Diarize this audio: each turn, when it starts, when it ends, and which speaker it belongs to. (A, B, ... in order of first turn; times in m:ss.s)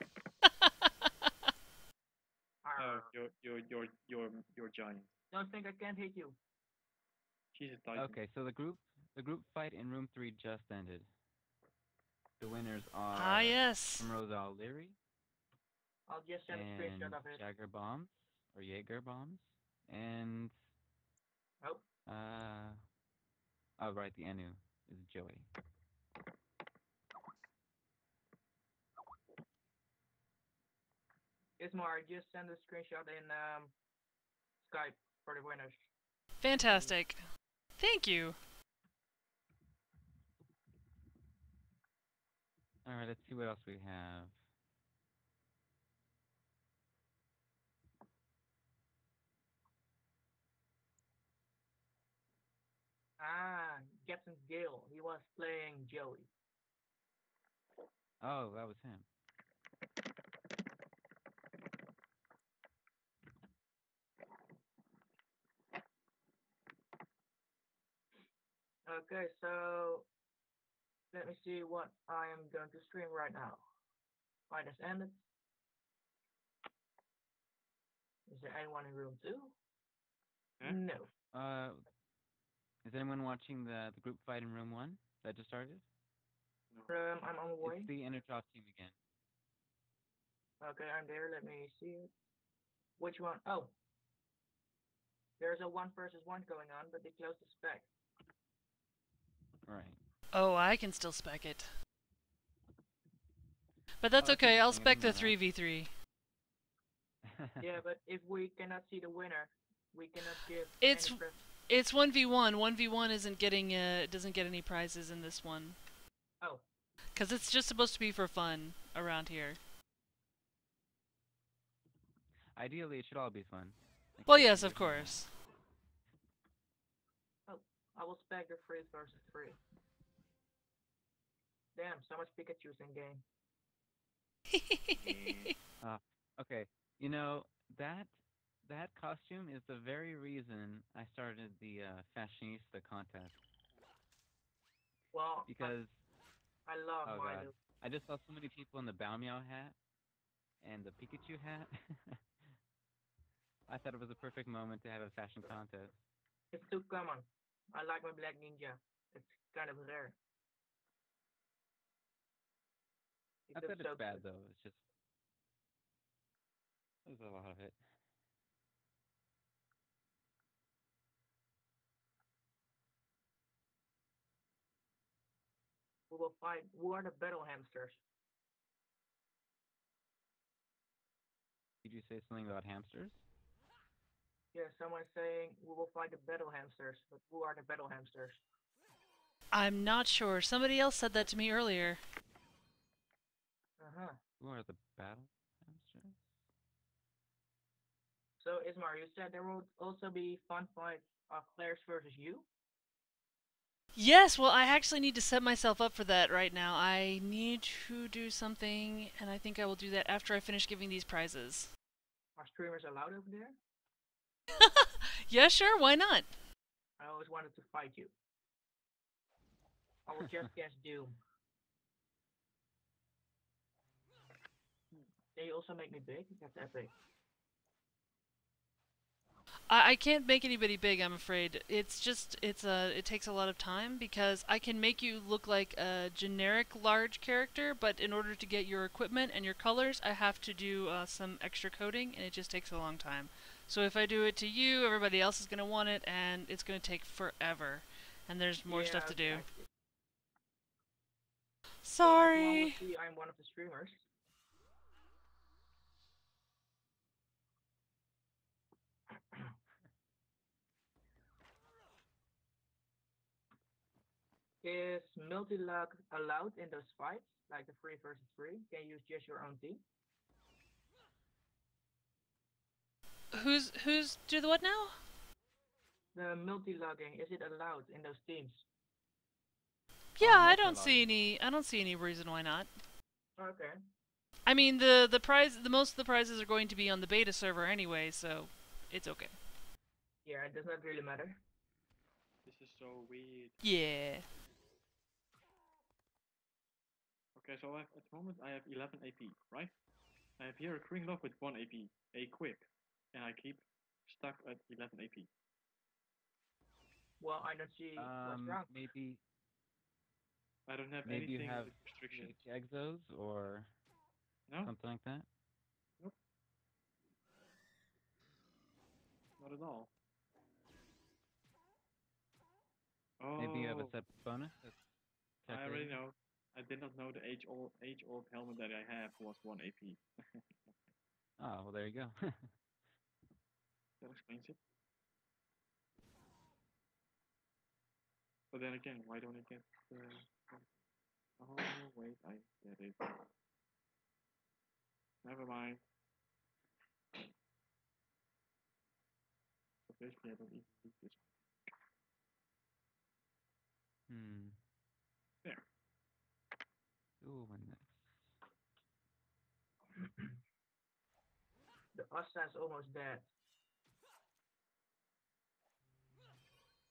0:02.6-0:03.1 A
0:02.8-0:05.1 B
0:05.3-0:06.4 A
0:07.5-0:08.2 B
0:07.9-0:11.1 C
0:12.4-0:15.0 C
0:13.1-0:14.1 D
0:16.1-0:17.4 A
0:16.5-0:20.5 C
0:22.1-0:22.8 C
0:23.8-0:25.5 C
0:31.6-0:33.7 A
0:34.6-0:35.8 A
0:36.4-0:37.2 D
0:36.6-0:36.9 A
0:37.8-0:38.4 D
0:42.8-0:44.3 C
0:53.2-0:56.3 A
0:58.2-0:59.0 C
1:08.8-1:10.1 A
1:11.1-1:13.6 A
1:14.5-1:15.2 A
1:18.3-1:19.5 A
1:20.6-1:21.1 A
1:21.3-1:21.8 C
1:22.8-1:25.8 C
1:26.9-1:27.9 A
1:27.6-1:28.9 C
1:30.6-1:32.1 A
1:33.0-1:33.7 A
1:35.4-1:37.9 A
1:39.7-1:40.0 C
1:40.3-1:41.7 D
1:44.0-1:45.9 D
1:44.2-1:45.4 C
1:47.3-1:47.6 C
1:47.6-1:51.4 A
1:50.8-1:55.8 D
1:57.2-1:59.6 D
2:02.6-2:05.2 C
2:04.3-2:05.3 D
2:07.5-2:09.6 A
2:11.7-2:13.2 A
2:14.5-2:15.5 D
2:14.9-2:15.5 B
2:15.8-2:18.1 C
2:18.6-2:23.4 C
2:25.1-2:25.8 A
2:25.5-2:26.0 C
2:26.6-2:27.5 A
2:27.0-2:29.8 C
2:30.6-2:32.2 C
2:33.7-2:36.0 C
2:36.5-2:40.2 A
2:43.5-2:44.2 A
2:43.5-2:44.8 C
2:47.0-2:47.8 C
2:56.1-2:58.0 A
3:01.8-3:03.2 C
3:04.5-3:08.4 A
3:09.5-3:12.0 D
3:13.8-3:14.2 A
3:14.4-3:16.2 C
3:18.4-3:22.5 A
3:23.9-3:31.7 D
3:32.4-3:33.6 A
3:34.5-3:36.3 D
3:37.0-3:38.1 A
3:40.0-3:41.2 A
3:45.3-3:46.9 A
3:49.7-4:09.4 D
4:08.7-4:09.7 A
4:11.8-4:12.8 D
4:12.0-4:14.0 A
4:24.6-4:29.8 A
4:33.3-4:35.0 D
4:36.1-4:38.6 A
4:40.2-4:42.7 D
4:40.2-4:41.1 C
4:43.4-4:43.8 A
4:44.4-4:49.4 D
4:50.2-4:51.4 A
4:52.4-4:53.6 B
4:53.6-4:54.2 D
4:57.4-4:59.7 B
5:00.4-5:05.3 B
5:07.2-5:08.8 A
5:08.0-5:09.2 C
5:10.7-5:12.4 B
5:11.0-5:13.7 C
5:14.5-5:14.7 B
5:14.6-5:15.2 C
5:19.4-5:19.9 B
5:23.2-5:24.0 B
5:23.4-5:24.9 C
5:25.4-5:25.9 C
5:25.5-5:30.7 B
5:31.4-5:32.5 C
5:34.0-5:34.6 B
5:38.5-5:40.7 B
5:41.4-5:43.3 B
5:45.2-5:45.8 B
5:49.9-5:51.2 B
5:54.1-5:54.6 C
5:57.2-5:58.3 C
6:01.9-6:03.3 A